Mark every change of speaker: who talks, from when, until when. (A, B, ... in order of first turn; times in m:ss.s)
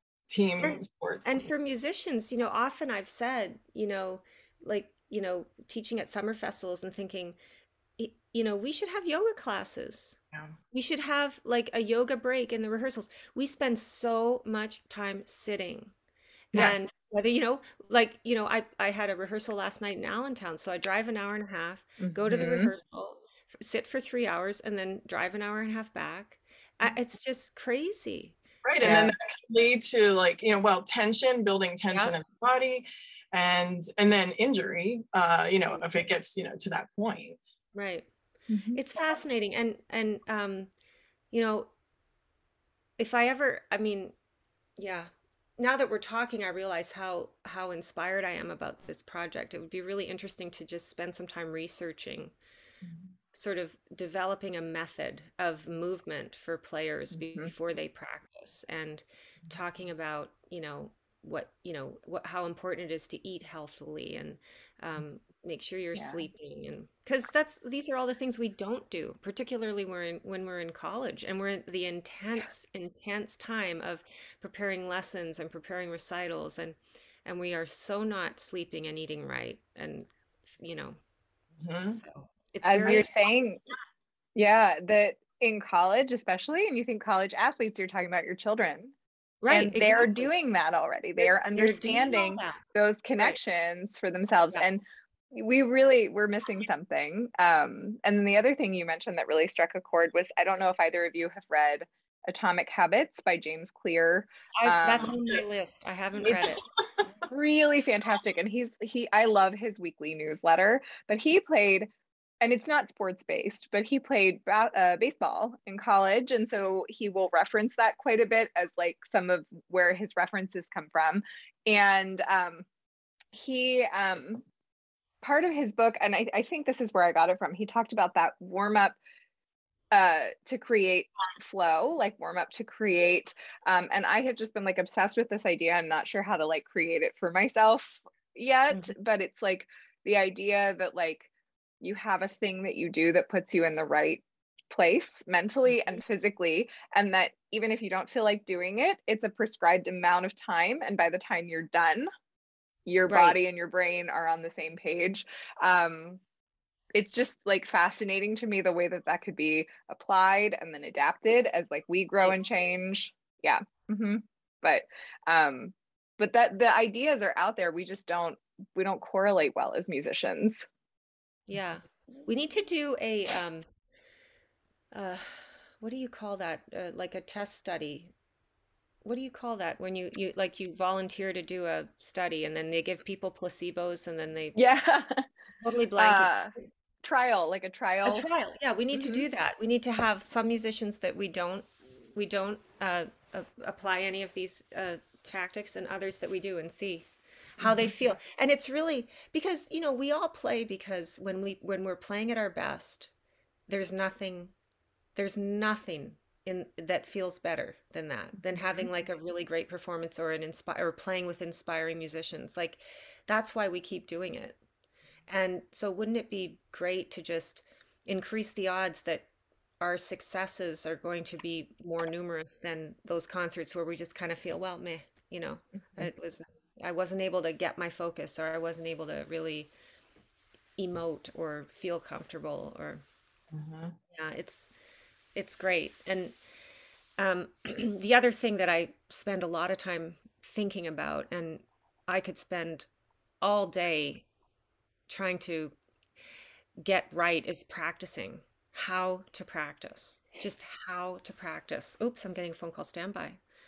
0:00.3-0:01.5 A
0:00.6-0:07.4 B
0:08.0-0:10.2 B
0:10.7-0:15.9 B
0:16.5-0:29.1 B
0:16.5-0:16.8 A
0:22.0-0:22.7 C
0:28.6-0:37.4 A
0:28.8-0:29.1 C
0:37.8-0:38.1 B
0:38.5-0:38.8 C
0:38.7-0:40.7 B
0:41.3-0:41.7 B
0:43.0-0:44.2 B
0:44.8-0:52.3 B
0:53.3-1:21.0 B
0:57.1-0:57.5 C
1:05.9-1:06.2 C
1:21.6-1:22.0 A
1:21.9-1:23.1 B
1:22.6-1:23.6 C
1:24.4-1:28.9 C
1:29.4-1:30.3 B
1:29.5-1:45.2 C
1:31.5-1:32.6 B
1:44.6-1:46.6 B
1:47.2-1:51.9 C
1:52.4-2:02.7 C
2:03.3-2:04.4 C
2:05.2-2:09.0 C
2:09.9-2:21.3 C
2:21.8-2:32.1 C
2:32.9-2:36.2 C
2:33.1-2:33.4 B
2:36.9-2:50.6 C
2:51.5-2:53.7 B
2:54.9-2:58.1 B
2:59.0-3:04.6 B
3:04.6-3:05.3 C
3:05.6-3:06.4 B
3:06.0-3:06.5 C
3:07.0-3:08.3 C
3:08.0-3:17.1 B
3:08.9-3:09.2 C
3:17.6-3:23.1 B
3:23.7-3:24.5 B
3:25.2-3:34.6 B
3:35.3-3:39.3 B
3:39.8-3:49.7 B
3:50.8-3:53.0 B
3:53.5-3:54.0 A
3:54.1-3:54.7 B
3:55.4-3:56.4 B
3:57.2-4:02.9 B
4:03.4-4:04.2 B
4:05.1-4:05.8 B
4:06.8-4:13.4 B